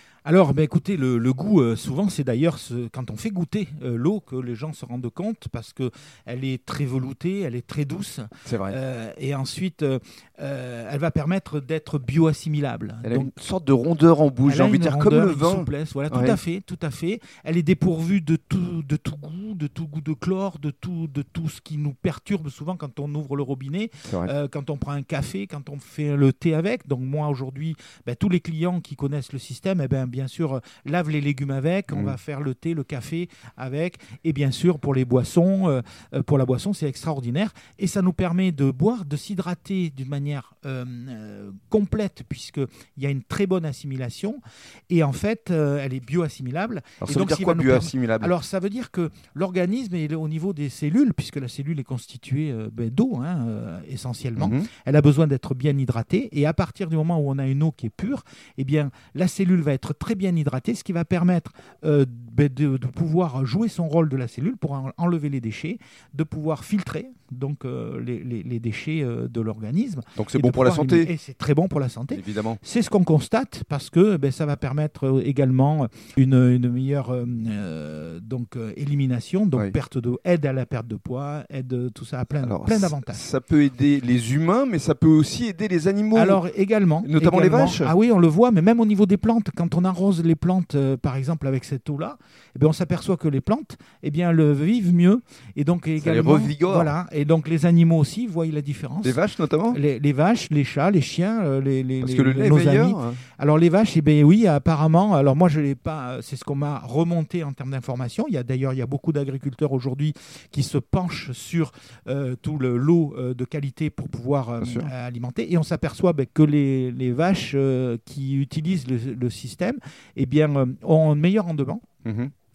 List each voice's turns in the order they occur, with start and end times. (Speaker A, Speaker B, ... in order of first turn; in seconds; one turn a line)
Speaker A: 0.2-13.3
Speaker B: 8.4-8.8
Speaker B: 13.0-16.4
Speaker A: 14.4-44.4
Speaker A: 44.9-83.2
Speaker B: 47.0-48.3
Speaker B: 54.4-54.7
Speaker B: 70.2-71.1
Speaker B: 72.1-72.6
Speaker B: 82.4-86.4
Speaker A: 86.1-99.2
Speaker B: 87.0-87.9
Speaker B: 96.0-96.9
Speaker B: 99.0-99.8
Speaker A: 99.7-121.8
Speaker B: 102.0-103.2
Speaker B: 114.6-114.9
Speaker B: 122.0-122.3